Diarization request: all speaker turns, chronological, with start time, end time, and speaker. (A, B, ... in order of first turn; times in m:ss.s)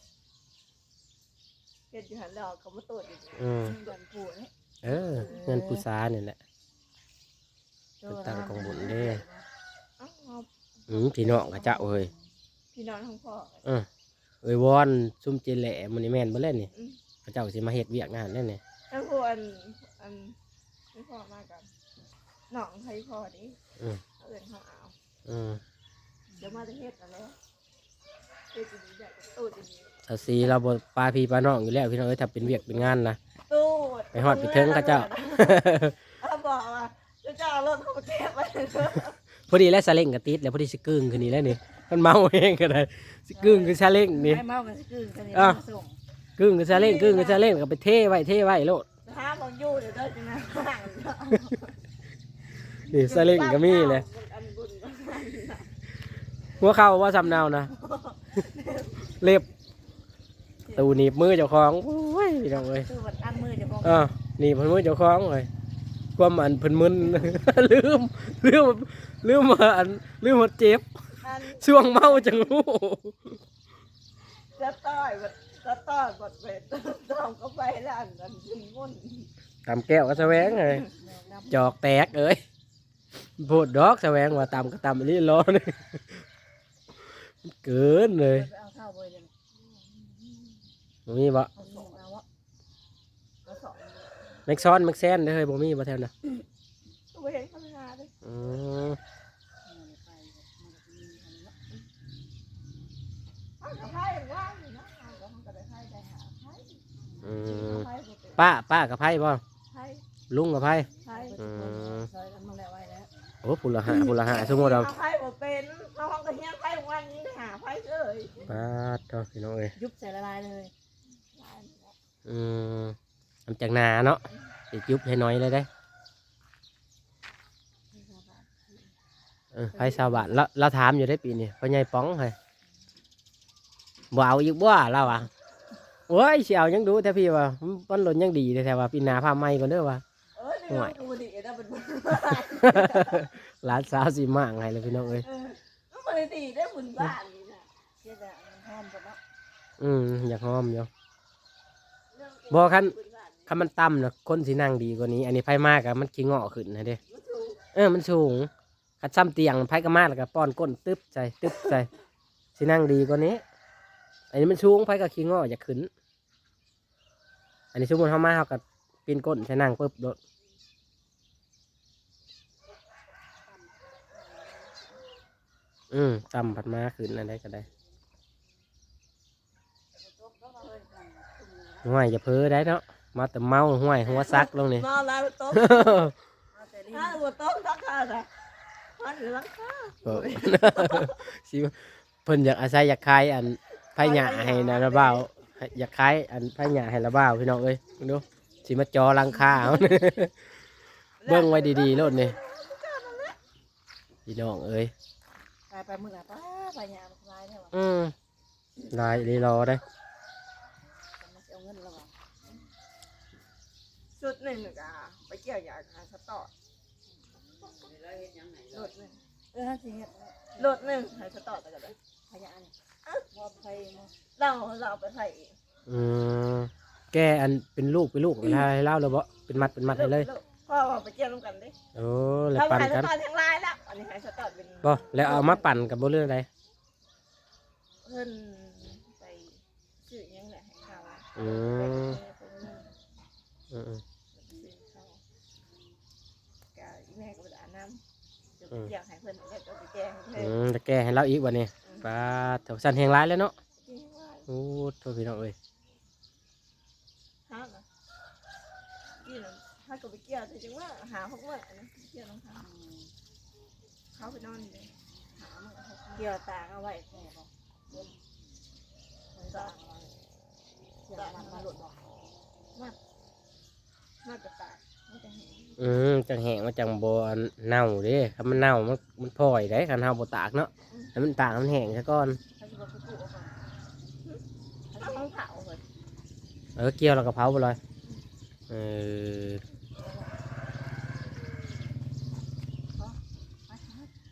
0:01.9-0:03.5 A
0:03.4-0:03.7 B
0:03.6-0:04.5 C
0:04.8-0:06.4 B
0:05.1-0:05.8 C
0:05.1-0:05.4 A
0:08.0-0:09.4 C
0:08.0-0:09.2 B
0:10.0-0:11.2 A
0:10.9-0:12.1 B
0:11.4-0:12.2 C
0:12.7-0:13.7 A
0:14.4-0:16.7 B
0:17.2-0:18.6 B
0:18.9-0:20.4 A
0:20.9-0:21.7 A
0:22.5-0:23.6 A
0:24.2-0:24.9 A
0:25.2-0:25.6 B
0:26.3-0:26.6 C
0:26.4-0:27.4 A
0:28.5-0:29.9 A
0:30.1-0:33.2 B
0:33.5-0:39.2 A
0:34.1-0:35.9 B
0:39.5-0:44.4 B
0:43.3-0:46.0 C
0:45.3-0:45.6 B
0:46.4-0:48.8 B
0:46.7-0:47.4 A
0:49.0-0:51.7 A
0:52.9-0:54.0 B
0:52.9-0:55.7 A
0:56.6-0:57.7 B
0:57.7-0:59.1 A
0:59.2-0:59.4 B
1:00.6-1:01.0 C
1:00.7-1:02.9 B
1:02.6-1:04.0 C
1:03.8-1:05.5 B
1:06.2-1:10.9 B
1:11.2-1:12.4 A
1:11.5-1:13.4 B
1:14.6-1:19.3 A
1:19.6-1:20.8 B
1:20.2-1:21.7 C
1:21.5-1:22.4 B
1:23.4-1:26.2 B
1:27.4-1:28.5 B
1:28.2-1:29.3 C
1:29.6-1:30.6 A
1:31.1-1:31.5 B
1:31.6-1:32.2 C
1:31.6-1:32.0 A
1:33.5-1:33.8 A
1:33.5-1:33.8 C
1:34.5-1:36.1 B
1:37.1-1:38.1 A
1:38.2-1:39.0 B
1:39.6-1:41.5 C
1:43.6-1:46.8 A
1:47.2-1:49.4 B
1:47.4-1:48.5 A
1:49.7-1:50.0 A
1:50.3-1:52.1 B
1:51.0-1:51.4 A
1:51.0-1:53.1 C
1:53.4-1:54.9 B
1:54.1-1:58.4 A
1:58.5-1:59.7 B
1:59.8-2:00.7 C
2:01.3-2:01.9 A
2:02.2-2:03.0 B
2:03.5-2:05.7 B
2:07.9-2:08.8 C
2:09.5-2:12.4 B
2:09.7-2:10.4 C
2:14.1-2:15.3 B
2:16.1-2:20.0 B
2:20.4-2:23.3 A
2:20.7-2:21.0 B
2:22.6-2:25.2 B
2:25.2-2:27.7 A
2:28.0-2:29.2 C
2:29.8-2:30.9 B
2:32.1-2:33.5 A
2:32.5-2:32.9 B
2:33.5-2:37.0 B
2:37.1-2:37.6 A
2:37.7-2:38.5 B
2:39.0-2:41.9 B
2:42.6-2:43.4 B
2:44.3-2:45.9 B
2:47.7-2:50.2 B
2:53.4-2:55.0 C
2:55.9-2:57.7 B
3:00.0-3:02.0 C
3:01.8-3:04.8 B
3:04.0-3:06.1 A
3:05.5-3:06.1 B
3:06.5-3:07.2 C
3:06.9-3:08.3 A
3:09.0-3:11.2 A
3:10.0-3:20.3 B
3:14.0-3:15.2 A
3:21.2-3:23.4 A
3:21.2-3:22.4 B
3:24.2-3:24.9 B
3:25.7-3:27.8 C
3:27.7-3:28.1 B
3:28.9-3:29.8 B
3:31.2-3:32.1 C
3:34.2-3:36.5 A
3:38.7-3:39.2 A
3:39.5-3:41.1 C
3:40.6-3:42.0 A
3:42.3-3:42.7 C
3:43.3-3:44.1 C
3:44.4-3:45.5 A
3:45.9-3:50.3 B
3:49.8-3:51.7 A
3:51.9-3:53.1 B
3:52.5-3:55.7 A
3:54.8-3:56.5 B
3:58.0-4:02.9 A
4:01.4-4:02.2 B
4:03.7-4:04.0 B
4:04.3-4:05.2 A
4:06.7-4:08.0 A
4:08.6-4:10.6 A
4:10.4-4:13.5 B
4:11.8-4:12.1 A
4:13.8-4:14.5 A
4:14.5-4:15.5 B
4:17.5-4:17.8 A
4:19.2-4:22.6 A
4:22.6-4:23.1 C
4:24.1-4:26.3 A
4:26.2-4:28.1 C
4:29.3-4:30.1 C
4:31.0-4:32.1 C
4:31.1-4:31.6 A
4:34.2-4:36.0 A
4:35.8-4:42.4 B
4:42.6-4:43.8 C
4:44.9-4:45.3 C
4:45.0-4:45.8 A
4:46.8-4:47.8 B
4:48.7-4:49.6 B
4:50.0-4:50.3 C
4:53.0-4:54.1 C